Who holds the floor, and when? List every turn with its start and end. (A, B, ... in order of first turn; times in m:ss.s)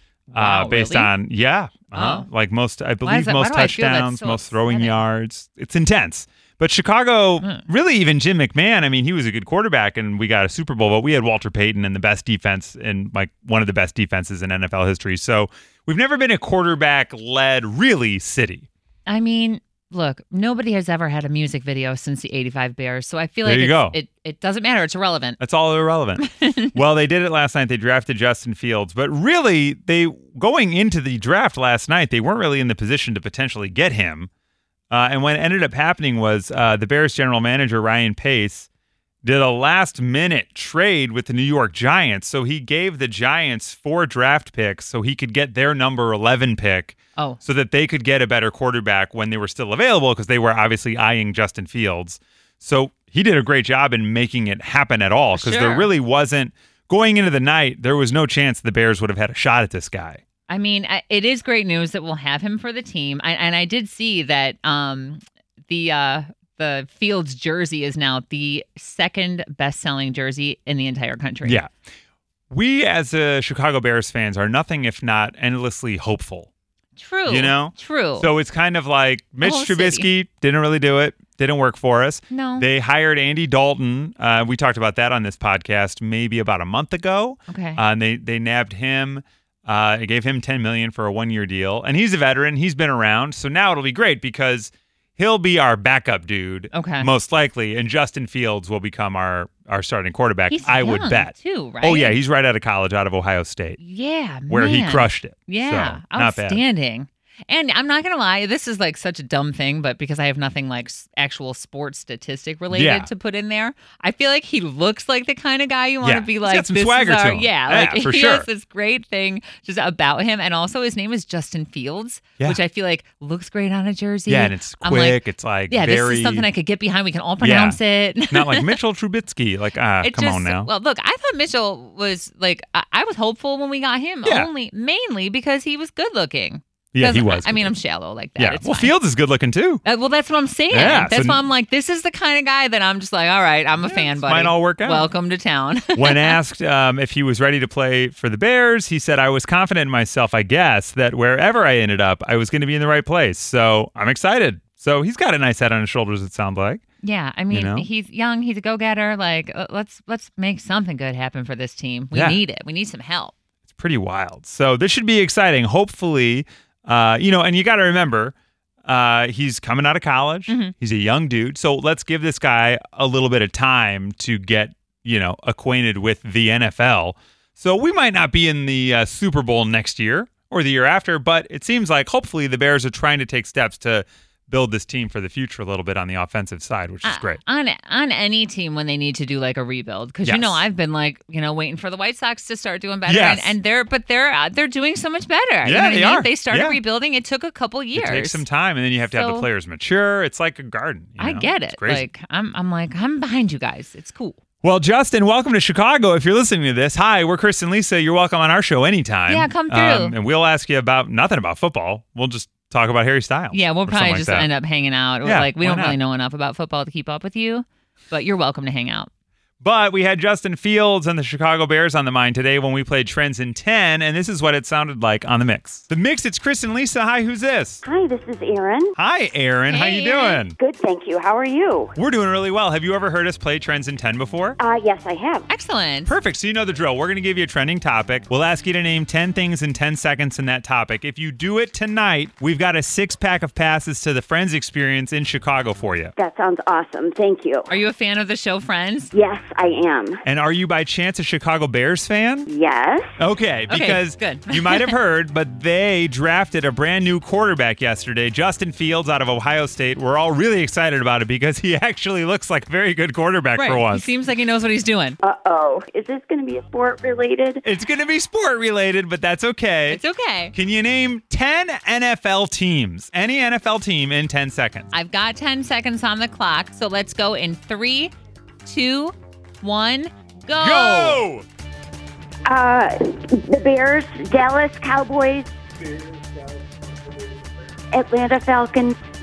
0:00.3-0:18.7 A
0:00.4-0:01.1 B
0:01.9-0:02.3 B
0:03.0-0:05.0 B
0:19.1-0:25.4 B
0:23.4-0:24.0 A
0:25.4-0:34.3 A
0:26.2-0:26.7 B
0:34.9-0:38.7 A
0:39.2-1:00.2 A
0:55.3-0:55.9 B
1:00.5-1:11.6 B
1:11.4-1:11.7 A
1:12.5-1:16.5 A
1:17.0-1:18.3 B
1:17.2-1:43.8 A
1:19.4-1:20.1 B
1:22.3-1:22.6 B
1:27.5-1:27.8 B
1:36.7-1:37.1 B
1:40.5-1:42.2 B
1:43.8-2:08.8 B
1:44.5-1:46.6 A
1:52.7-1:53.1 A
1:56.0-1:58.5 A
2:04.3-2:06.5 A
2:07.4-2:07.8 A
2:08.3-2:10.7 A
2:10.0-2:18.9 B
2:14.2-2:14.5 A
2:16.9-2:17.7 A
2:18.4-2:19.8 A
2:19.8-2:26.4 B
2:20.7-2:21.4 A
2:23.8-2:25.1 A
2:25.9-2:36.8 A
2:37.0-2:43.3 B
2:37.5-2:37.9 A
2:42.1-2:42.4 A
2:43.7-3:07.4 A
2:50.5-2:50.7 B
3:07.0-3:18.4 B
3:10.2-3:10.6 A
3:13.0-3:13.6 A
3:15.6-3:16.8 A
3:17.9-3:22.0 A
3:19.0-3:19.5 B
3:21.2-3:24.4 B
3:24.6-3:34.5 A
3:29.3-3:30.2 B
3:33.5-3:39.1 B
3:35.2-3:36.0 A
3:39.6-3:47.8 A
3:47.8-3:48.9 C
3:49.0-3:50.6 A
3:49.7-3:50.4 B
3:50.6-3:51.9 C
3:52.0-3:54.6 A
3:54.6-3:55.5 C
3:55.5-3:56.1 B
3:56.0-4:06.1 A
4:06.2-4:07.7 C
4:07.7-4:09.1 B
4:09.1-4:10.2 C
4:10.2-4:12.5 A
4:12.5-4:13.1 C
4:13.2-4:24.1 A
4:13.7-4:15.0 B
4:23.6-4:25.2 B
4:25.2-4:27.6 C
4:27.6-4:30.0 A
4:29.9-4:30.5 B
4:30.5-4:34.9 A
4:34.9-4:38.1 B
4:38.6-4:41.2 B
4:40.6-4:41.4 A
4:42.5-4:45.5 C
4:47.9-4:49.0 C